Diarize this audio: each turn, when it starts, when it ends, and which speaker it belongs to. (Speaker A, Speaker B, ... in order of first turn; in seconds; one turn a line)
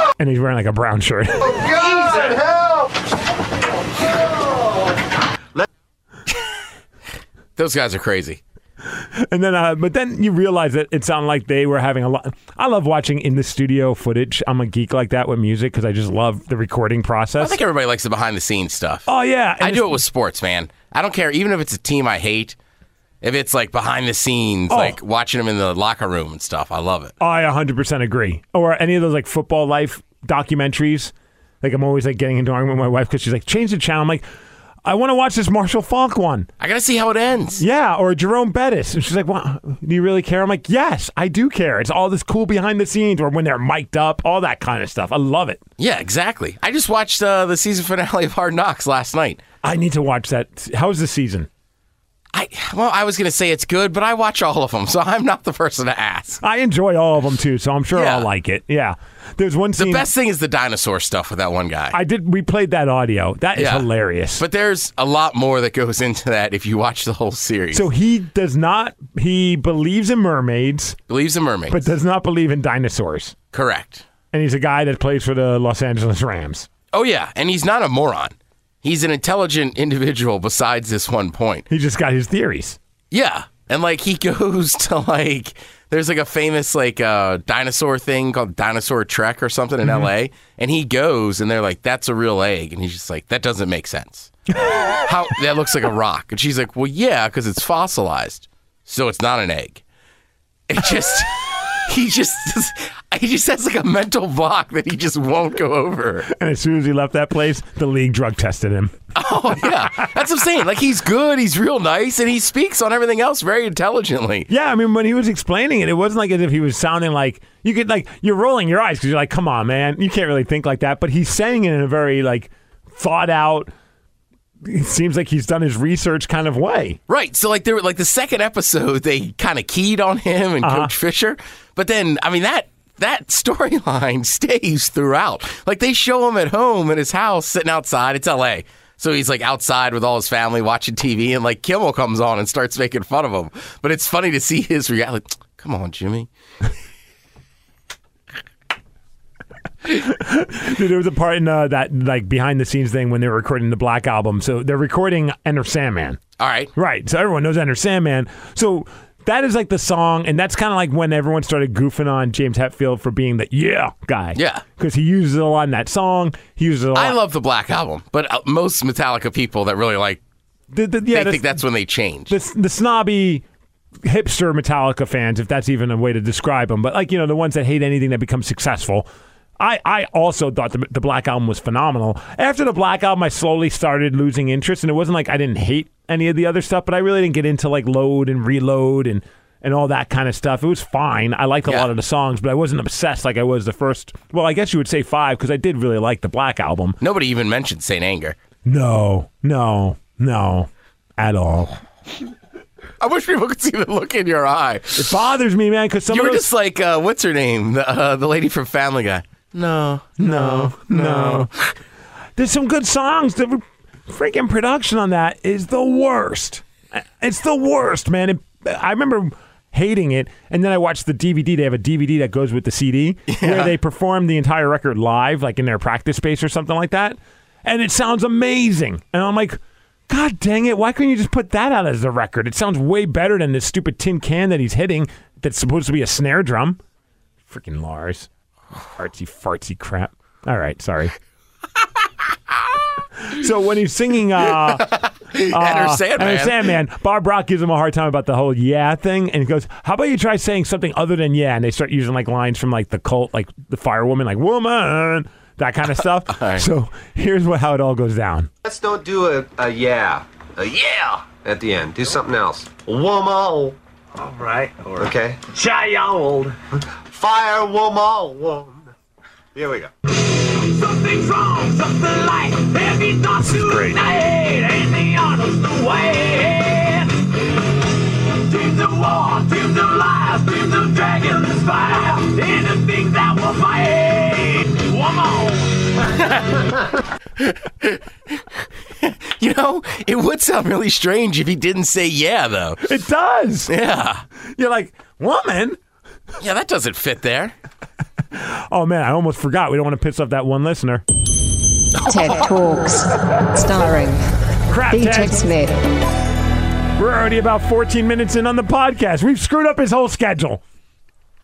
Speaker A: 0.2-1.6
Speaker B: 1.4-2.9
Speaker B: 4.1-4.6
Speaker C: 7.5-8.4
Speaker A: 9.3-17.6
Speaker C: 17.4-19.1
Speaker A: 19.1-20.0
Speaker C: 19.6-22.6
Speaker C: 23.2-27.1
Speaker A: 24.7-25.0
Speaker A: 27.2-34.2
Speaker A: 34.8-36.5
Speaker C: 36.6-37.6
Speaker A: 37.6-45.6
Speaker C: 45.8-49.4
Speaker A: 49.6-51.5
Speaker C: 52.3-56.4
Speaker A: 56.4-60.1
Speaker C: 57.9-58.3
Speaker C: 59.8-62.0
Speaker A: 61.9-64.4
Speaker C: 63.5-63.9
Speaker C: 64.4-67.8
Speaker A: 67.7-71.0
Speaker C: 71.1-71.8
Speaker A: 71.7-73.3
Speaker C: 73.5-74.0
Speaker A: 74.3-76.7
Speaker C: 76.9-81.6
Speaker A: 81.7-82.8
Speaker C: 83.1-94.3
Speaker C: 95.0-99.8
Speaker C: 100.7-106.3
Speaker A: 106.3-108.9
Speaker C: 109.1-114.5
Speaker A: 109.7-110.1
Speaker A: 114.5-123.7
Speaker A: 124.6-127.0
Speaker C: 127.1-146.3
Speaker A: 130.6-130.9
Speaker A: 149.9-156.2
Speaker C: 156.4-156.7
Speaker A: 156.7-167.2
Speaker C: 164.3-164.6
Speaker C: 166.9-170.2
Speaker A: 170.7-171.6
Speaker C: 171.1-172.3
Speaker A: 172.3-173.4
Speaker A: 174.0-179.1
Speaker A: 179.6-197.0
Speaker C: 197.0-198.4
Speaker A: 198.7-201.8
Speaker C: 203.0-205.1
Speaker A: 204.9-206.4
Speaker C: 206.1-211.6
Speaker A: 210.2-211.5
Speaker A: 212.4-236.8
Speaker C: 223.3-223.7
Speaker A: 237.5-238.3
Speaker A: 239.0-241.1
Speaker A: 243.2-258.5
Speaker C: 244.5-246.7
Speaker C: 256.3-256.6
Speaker B: 258.6-266.6
Speaker B: 267.1-268.9
Speaker B: 269.5-269.9
Speaker D: 270.3-277.2
Speaker A: 273.4-274.0
Speaker D: 278.3-286.0
Speaker C: 286.2-286.6
Speaker C: 287.4-288.0
Speaker C: 289.0-292.8
Speaker A: 292.8-293.7
Speaker C: 293.7-294.2
Speaker A: 294.5-295.8
Speaker C: 296.4-297.5
Speaker A: 298.3-301.0
Speaker E: 302.0-304.2
Speaker A: 304.7-305.5
Speaker E: 304.9-305.8
Speaker A: 307.0-310.6